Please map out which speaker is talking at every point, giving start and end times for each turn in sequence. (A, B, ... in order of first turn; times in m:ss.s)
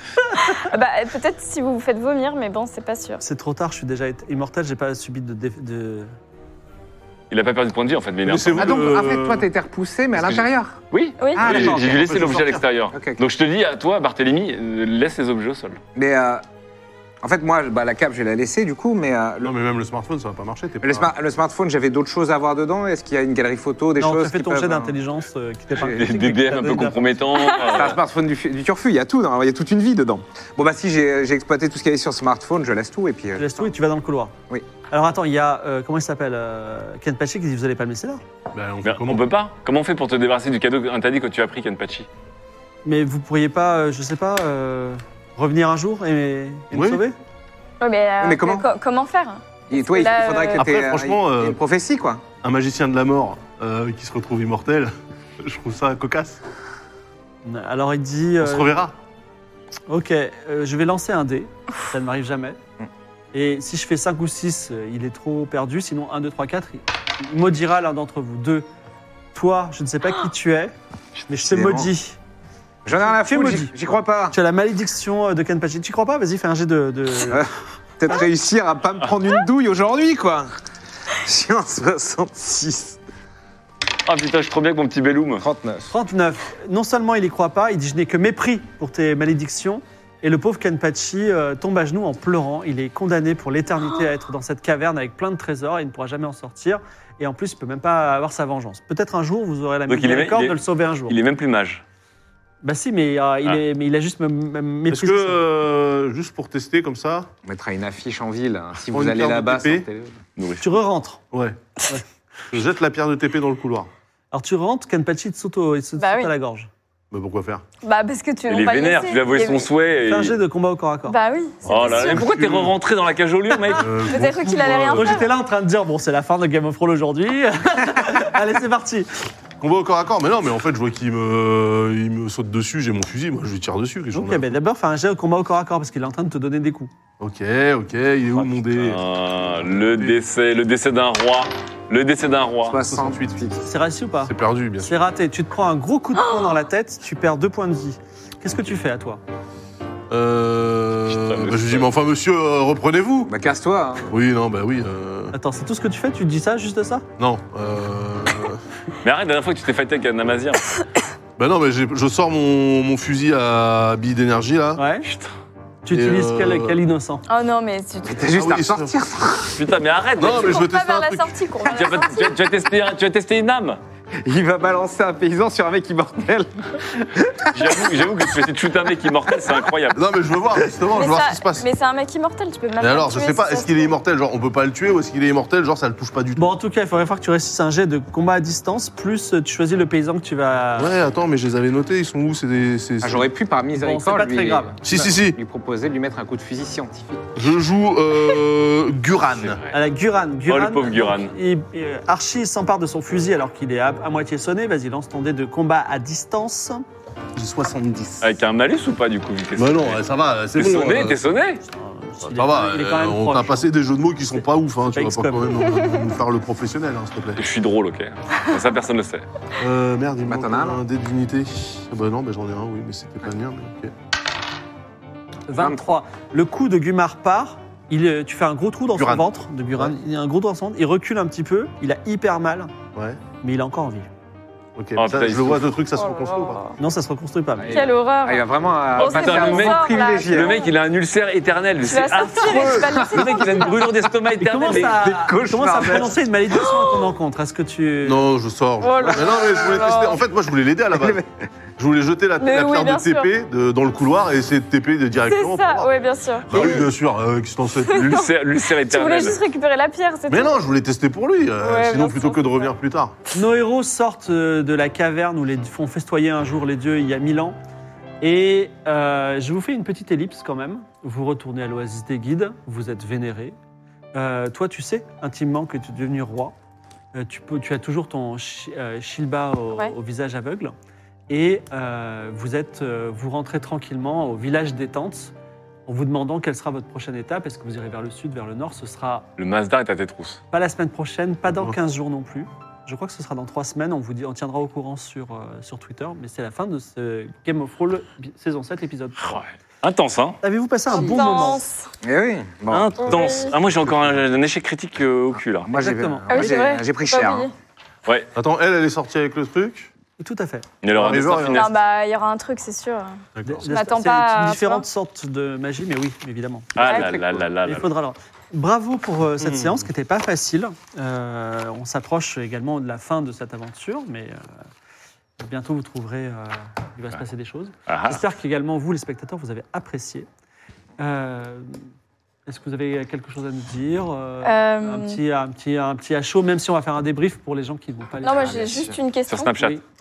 0:00.5-0:03.2 A
0:03.2-0:06.1 B
0:07.3-0:08.9 C
0:08.2-0:09.5 D
0:08.6-0:10.8 E
0:10.1-0:15.8 C
0:11.2-0:11.5 A
0:11.4-0:12.1 E
0:11.4-0:12.6 D
0:12.9-0:13.2 E
0:16.0-0:16.4 E
0:17.2-0:19.5 E
0:19.4-0:21.1 D
0:20.8-0:25.0 E
0:24.0-0:27.1 B
0:25.8-0:28.0 C
0:27.5-0:33.7 E
0:33.4-0:34.4 B
0:34.9-0:38.2 B
0:38.5-0:39.3 D
0:38.8-0:42.1 C
0:42.8-0:47.2 B
0:46.7-0:47.0 D
0:47.8-0:50.7 A
0:48.2-0:48.7 E
0:49.7-0:52.2 E
0:50.6-0:51.6 D
0:52.4-0:56.4 D
0:57.4-0:58.8 B
0:58.4-0:59.0 D
0:59.9-1:02.6 B
1:03.3-1:08.7 B
1:09.3-1:10.7 B
1:11.3-1:12.2 B
1:11.4-1:11.9 E
1:12.8-1:14.4 E
1:13.0-1:13.8 B
1:14.3-1:17.5 B
1:17.3-1:20.6 E
1:21.1-1:23.0 E
1:24.1-1:25.5 C
1:25.4-1:25.9 E
1:25.9-1:41.2 B
1:39.9-1:41.8 C
1:42.6-1:45.4 B
1:44.9-1:47.3 D
1:47.4-1:50.2 E
1:48.9-1:49.9 D
1:50.4-1:50.8 C
1:50.6-1:51.2 B
1:51.3-1:51.6 D
1:52.5-1:53.9 D
1:54.3-1:56.7 B
1:56.0-1:56.3 A
1:57.1-1:57.6 D
1:57.8-1:59.7 A
1:58.5-2:00.4 C
2:00.0-2:01.2 B
2:01.1-2:02.2 A
2:01.6-2:04.0 C
2:01.8-2:02.7 D
2:03.8-2:05.3 D
2:04.0-2:05.3 A
2:04.3-2:09.1 B
2:09.6-2:14.5 D
2:14.1-2:16.9 B
2:17.2-2:20.2 D
2:18.3-2:22.8 C
2:22.7-2:23.6 E
2:22.8-2:23.6 D
2:23.7-2:29.2 B
2:24.2-2:25.0 D
2:30.1-2:33.3 D
2:31.1-2:31.9 C
2:33.3-2:34.1 E
2:34.1-2:35.3 D
2:35.3-2:37.0 B
2:37.2-2:38.6 D
2:39.0-2:40.6 C
2:41.4-2:44.8 D
2:44.8-2:45.1 B
2:45.0-2:45.4 C
2:45.8-2:47.2 B
2:45.9-2:46.8 D
2:47.3-2:48.2 A
2:48.0-2:49.5 E
2:48.2-2:49.0 D
2:49.5-2:50.7 C
2:50.2-2:51.6 D
2:50.3-2:52.4 A
2:51.7-2:53.8 C
2:54.2-2:57.8 E
2:57.5-3:00.0 C
2:59.9-3:01.7 D
3:01.0-3:03.9 A
3:02.8-3:06.6 D
3:06.4-3:10.9 B
3:10.8-3:13.3 D
3:13.0-3:17.4 E
3:13.8-3:15.1 B
3:14.8-3:15.4 D
3:17.4-3:19.6 D
3:19.4-3:19.8 C
3:19.7-3:26.8 B
3:20.5-3:21.3 C
3:27.4-3:28.4 D
3:28.2-3:30.0 C
3:29.6-3:31.2 D
3:30.6-3:31.6 C
3:31.6-3:33.7 B
3:32.2-3:37.4 D
3:34.3-3:35.7 B
3:37.4-3:39.3 C
3:39.6-3:43.9 D
3:40.3-3:40.8 E
3:45.5-3:52.7 B
3:45.6-3:45.8 E
3:49.0-3:49.9 D
3:53.4-3:54.1 B
3:54.8-3:56.6 D
3:55.0-3:55.8 C
3:55.9-3:56.8 A
3:56.8-3:57.9 B
3:57.6-4:00.6 E
3:57.7-4:00.7 A
3:59.0-4:05.1 C
4:01.8-4:03.8 A
4:02.4-4:03.1 D
4:03.1-4:03.7 E
4:04.4-4:08.3 B
4:04.9-4:06.2 E
4:08.0-4:11.2 D
4:08.8-4:10.2 A
4:10.9-4:11.3 E
4:11.8-4:16.0 D
4:12.4-4:13.3 A
4:15.3-4:16.8 A
4:16.5-4:18.2 D
4:16.5-4:16.9 C
4:17.9-4:18.3 A
4:17.9-4:19.4 C
4:18.9-4:20.6 A
4:20.3-4:23.2 D
4:21.6-4:22.7 A
4:23.4-4:27.6 B
4:28.2-4:33.6 B
4:34.1-4:36.6 B
4:37.2-4:40.7 B
4:41.3-4:45.3 B
4:45.9-4:49.3 B
4:49.4-4:50.4 C
4:50.5-4:59.4 B
4:51.5-4:51.8 D
4:59.2-5:00.4 C
5:00.4-5:01.6 B
5:00.9-5:01.9 A
5:01.0-5:01.3 E
5:02.0-5:03.5 E
5:02.7-5:05.7 C
5:03.0-5:03.5 A
5:05.7-5:07.5 E
5:05.7-5:06.5 B
5:06.3-5:07.5 A
5:08.4-5:09.9 D
5:10.2-5:10.7 B
5:10.8-5:11.7 C
5:10.9-5:11.7 D
5:11.5-5:14.8 A
5:13.4-5:13.7 D
5:13.4-5:17.0 B
5:16.8-5:17.9 C
5:16.9-5:17.1 A
5:16.9-5:17.4 E
5:17.6-5:24.4 B
5:19.4-5:19.8 D
5:25.4-5:30.3 B
5:27.9-5:28.3 C
5:31.0-5:31.8 B
5:32.5-5:38.9 B
5:34.4-5:35.2 A
5:38.2-5:39.6 A
5:39.3-5:39.8 C
5:39.6-5:39.8 B